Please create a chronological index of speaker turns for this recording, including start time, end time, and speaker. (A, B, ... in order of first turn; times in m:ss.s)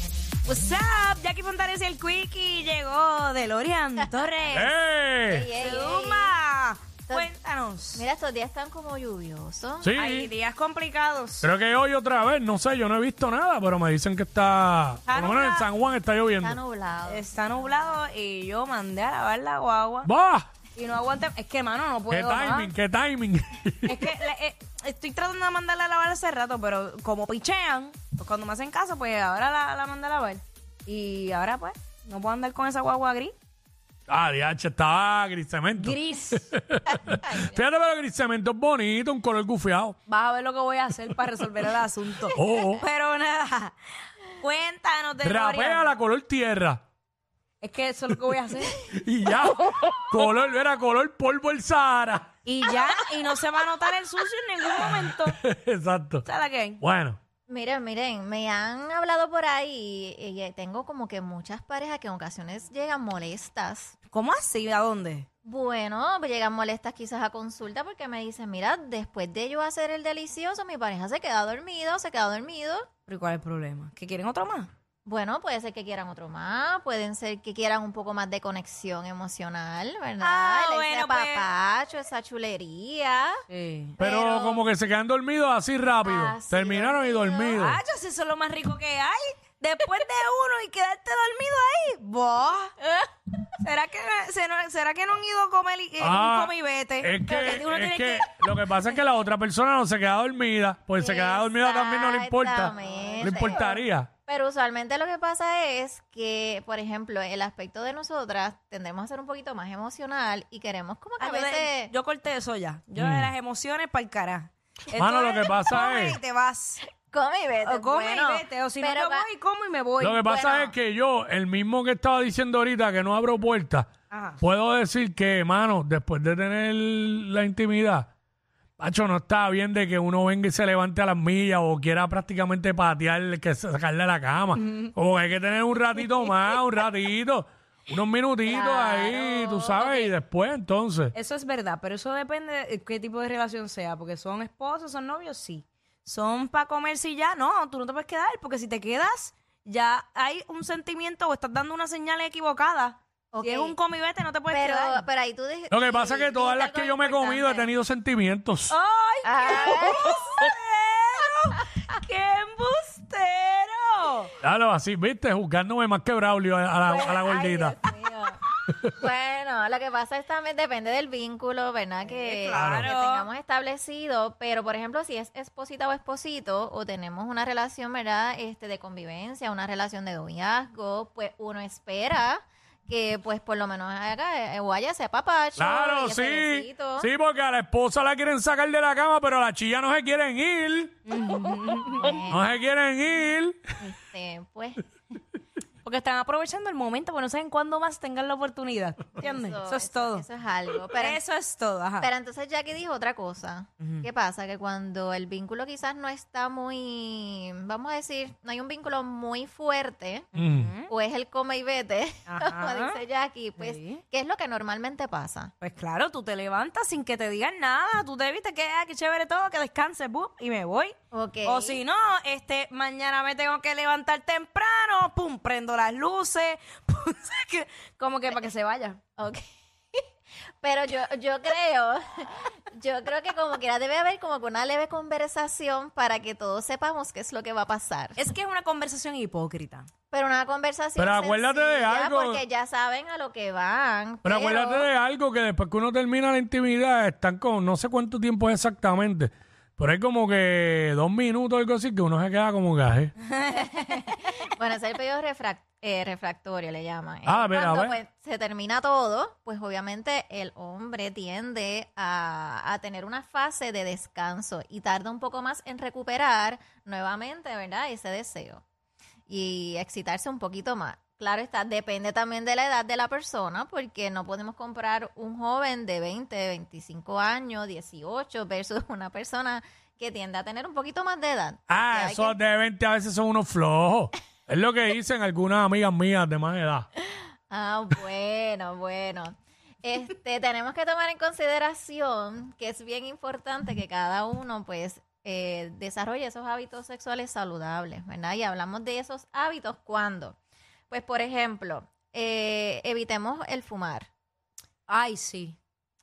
0:00.5-0:04.8 A
0:04.5-0:05.5 B
0:05.2-0:06.3 C
0:05.6-0:08.0 A
0:07.9-0:09.9 C
0:09.8-0:10.3 B
0:09.9-0:11.5 A
0:11.4-0:16.6 B
0:15.1-0:15.6 A
0:16.4-0:17.8 C
0:17.1-0:20.1 A
0:20.0-0:20.5 B
0:20.8-0:22.7 A
0:22.1-0:24.1 B
0:23.8-0:33.3 A
0:34.1-0:40.0 B
0:35.8-0:36.5 A
0:37.0-0:37.7 C
0:40.1-0:43.8 A
0:42.3-0:42.8 B
0:44.3-0:46.0 A
0:45.2-0:46.8 B
0:47.6-0:48.8 A
0:48.9-0:52.3 B
0:52.4-0:55.4 A
0:54.8-0:56.3 B
0:56.2-0:56.8 A
0:56.8-0:57.2 B
0:57.5-1:04.0 C
1:04.1-1:05.3 A
1:05.4-1:12.9 C
1:13.1-1:14.7 A
1:15.0-1:23.4 C
1:20.2-1:21.5 A
1:23.5-1:24.0 A
1:24.0-1:24.6 C
1:24.0-1:27.8 B
1:26.0-1:27.6 C
1:27.6-1:32.7 A
1:32.8-1:33.5 C
1:33.6-1:38.5 A
1:36.0-1:44.1 B
1:41.0-1:51.9 C
1:42.7-1:43.6 A
1:51.2-1:56.8 A
1:53.0-1:53.3 B
1:55.0-1:56.2 B
1:56.9-1:59.3 C
1:57.6-2:00.2 A
2:00.0-2:08.1 B
2:00.2-2:00.7 C
2:04.1-2:04.4 A
2:08.8-2:21.1 B
2:18.5-2:19.8 C
2:19.7-2:20.1 A
2:21.1-2:35.0 A
2:33.3-2:33.8 C
2:34.5-2:37.7 C
2:35.7-2:38.8 B
2:38.7-2:44.3 A
2:39.2-2:40.2 C
2:44.4-2:47.8 B
2:46.9-3:07.1 C
2:52.0-2:53.3 A
2:52.6-2:52.9 B
3:05.6-3:11.0 B
3:11.1-3:12.2 A
3:12.0-3:12.5 C
3:12.3-3:13.6 B
3:13.8-3:14.8 C
3:15.8-3:20.2 A
3:19.2-3:21.2 C
3:20.9-3:22.1 A
3:22.0-3:30.3 C
3:23.8-3:24.1 A
3:30.3-3:30.9 A
3:30.4-3:30.7 B
3:30.9-3:35.5 C
3:32.3-3:33.0 A
3:33.6-3:34.0 A
3:35.6-3:49.0 A
3:41.1-3:41.8 C
3:49.2-3:49.4 C
3:50.6-3:58.2 C
3:58.2-3:59.9 A
4:00.1-4:04.9 C
4:01.0-4:02.4 B
4:04.2-4:13.1 B
4:13.3-4:13.8 A
4:13.5-4:28.6 C
4:17.3-4:18.0 B
4:29.3-4:42.4 C
4:41.7-4:46.9 B
4:47.0-5:00.4 C
5:00.9-5:04.1 C
5:04.9-5:05.6 A